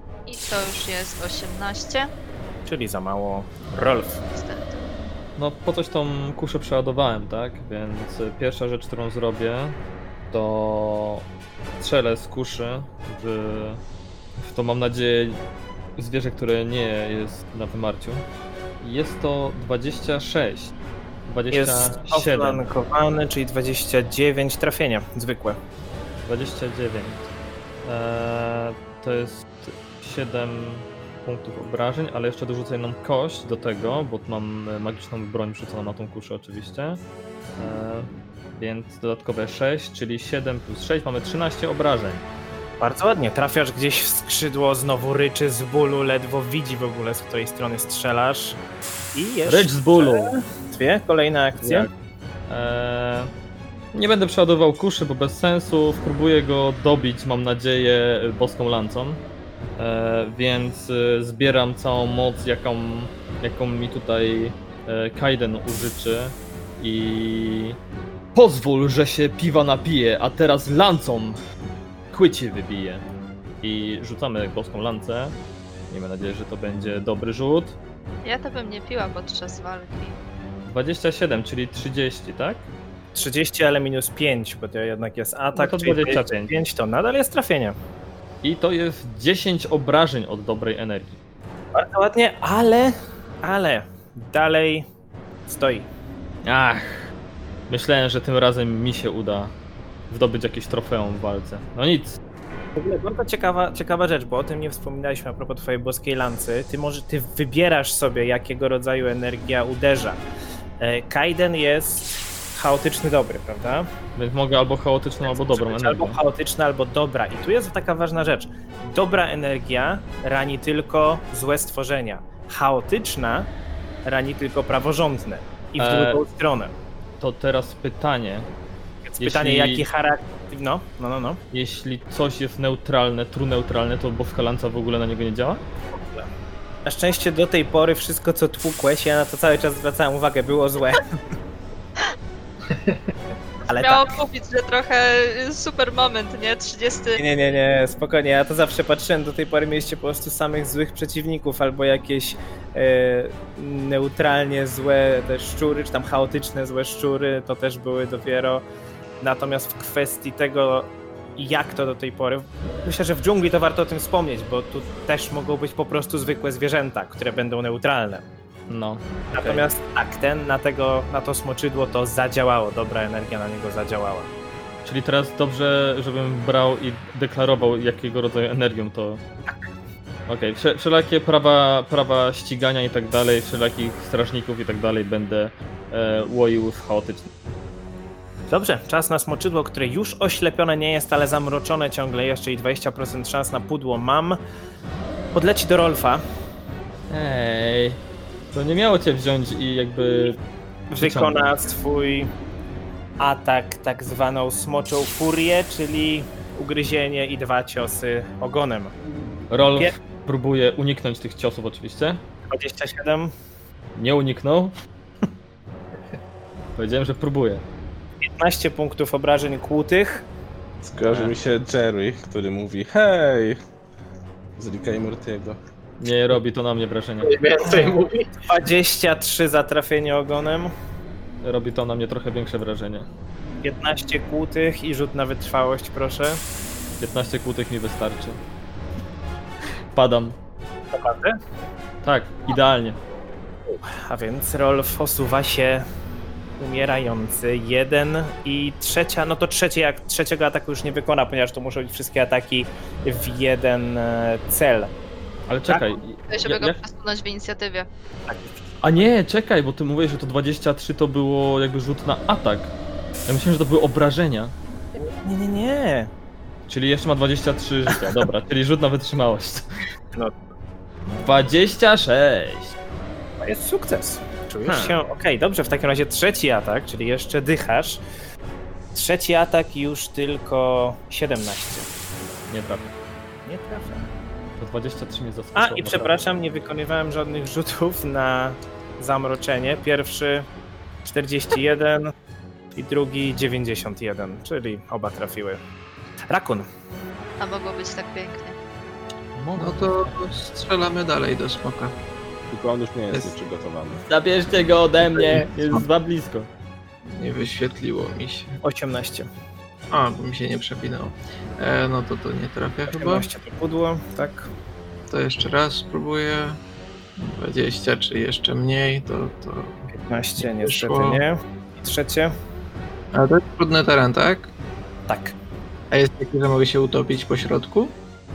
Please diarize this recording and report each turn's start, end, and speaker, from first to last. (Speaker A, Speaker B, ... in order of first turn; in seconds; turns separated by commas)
Speaker A: 0.3-2.1, Speaker B: 2.6-4.2, Speaker A: 4.3-4.9, Speaker C: 5.4-9.8, Speaker C: 10.3-11.2, Speaker C: 11.8-13.8, Speaker C: 14.4-15.4, Speaker C: 16.0-18.2, Speaker C: 18.8-20.7, Speaker C: 21.3-22.6, Speaker B: 21.5-25.6, Speaker C: 26.3-27.3, Speaker C: 27.8-37.0, Speaker C: 37.6-42.2, Speaker B: 42.8-48.6, Speaker B: 49.1-51.9, Speaker C: 49.5-50.3, Speaker C: 51.6-51.9, Speaker C: 52.5-53.3, Speaker C: 53.9-59.2, Speaker C: 59.8-67.8, Speaker C: 68.3-71.4, Speaker C: 72.1-73.0, Speaker C: 73.6-75.3, Speaker C: 75.9-77.8, Speaker A: 78.2-80.2, Speaker C: 80.7-82.6, Speaker B: 83.1-87.8, Speaker C: 85.5-86.5, Speaker C: 88.4-91.2, Speaker B: 91.7-94.8, Speaker B: 95.5-95.9, Speaker C: 96.4-97.1, Speaker C: 97.7-99.5, Speaker C: 100.1-102.2, Speaker B: 102.8-110.2, Speaker B: 110.8-113.9, Speaker C: 114.2-116.2, Speaker B: 115.2-123.5, Speaker B: 124.0-126.7, Speaker C: 125.8-126.2, Speaker C: 127.2-128.5, Speaker B: 129.1-131.4, Speaker C: 129.2-129.8, Speaker C: 131.5-135.6, Speaker B: 135.9-136.3, Speaker B: 136.8-141.1, Speaker D: 142.7-143.0, Speaker B: 143.7-144.1, Speaker A: 143.7-147.2, Speaker B: 147.2-158.6, Speaker B: 159.2-168.2, Speaker C: 168.7-169.7, Speaker B: 169.3-174.3, Speaker C: 174.8-179.2, Speaker C: 180.3-187.3, Speaker B: 188.5-194.4, Speaker B: 195.3-196.2, Speaker C: 197.1-198.0, Speaker C: 198.5-200.4, Speaker B: 200.9-202.3, Speaker C: 200.9-201.5, Speaker B: 203.2-208.9, Speaker C: 209.5-212.2, Speaker B: 212.5-213.3, Speaker C: 213.9-214.7, Speaker C: 216.8-217.6, Speaker B: 218.2-220.2, Speaker E: 220.8-223.6, Speaker C: 221.0-221.3, Speaker E: 224.6-225.6, Speaker C: 226.0-227.4, Speaker D: 227.2-228.3, Speaker B: 227.6-230.7, Speaker C: 231.4-233.1, Speaker B: 233.6-236.4, Speaker C: 237.0-238.4, Speaker C: 239.9-240.3, Speaker B: 240.9-241.3, Speaker C: 242.0-243.0, Speaker B: 243.7-245.8, Speaker B: 246.6-254.9, Speaker C: 255.5-256.8, Speaker B: 255.7-255.9, Speaker A: 256.3-257.9, Speaker B: 258.3-259.0, Speaker C: 258.8-262.7, Speaker C: 263.3-264.5, Speaker B: 264.9-266.1, Speaker C: 266.7-269.7, Speaker C: 271.2-272.7, Speaker B: 273.4-278.0, Speaker C: 274.6-275.0, Speaker B: 278.9-281.9, Speaker C: 282.5-282.9, Speaker B: 283.4-284.1, Speaker C: 284.6-286.2, Speaker B: 285.5-290.5, Speaker B: 291.0-292.1, Speaker B: 292.7-295.6, Speaker B: 296.3-296.6, Speaker A: 297.4-298.6, Speaker C: 299.4-300.4, Speaker D: 299.6-301.9, Speaker E: 302.5-304.0, Speaker C: 304.1-306.5, Speaker D: 305.0-305.9, Speaker D: 307.1-308.6, Speaker B: 308.6-309.3, Speaker D: 309.9-313.3, Speaker B: 312.9-314.5, Speaker D: 315.1-316.6, Speaker D: 317.2-319.9, Speaker B: 319.9-322.3, Speaker D: 320.4-321.2, Speaker D: 323.1-324.5, Speaker B: 325.1-325.3, Speaker D: 325.9-327.9